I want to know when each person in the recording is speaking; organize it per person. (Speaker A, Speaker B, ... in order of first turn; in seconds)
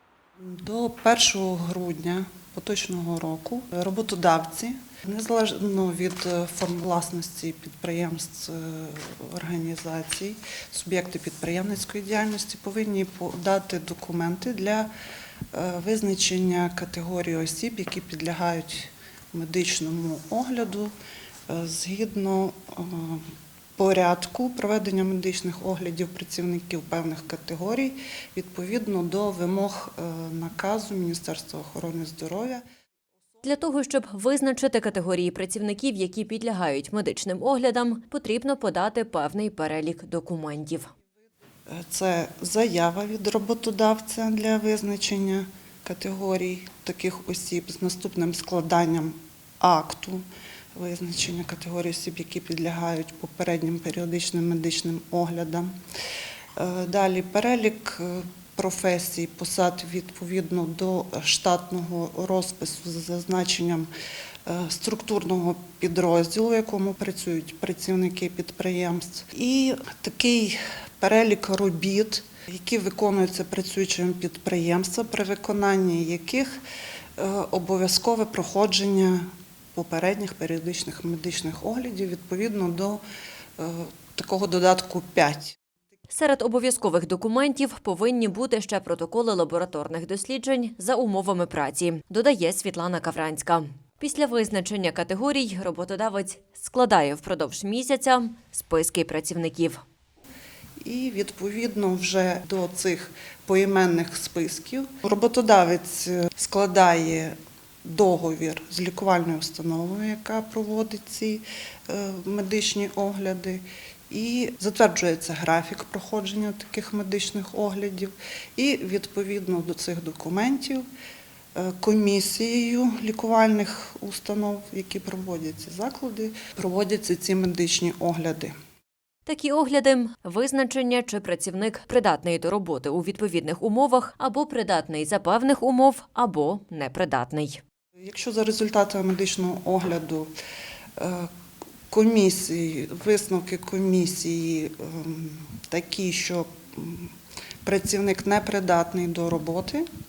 Speaker A: 0.4-14.9, 15.5-20.9, 21.5-32.6, 41.7-55.7, 56.6-63.9, 64.5-76.6, 77.2-83.0, 83.6-85.6, 100.8-120.8, 121.5-128.5, 138.0-140.3, 141.0-141.3, 141.9-149.8
Speaker B: 33.4-40.9, 86.1-99.8, 129.3-137.6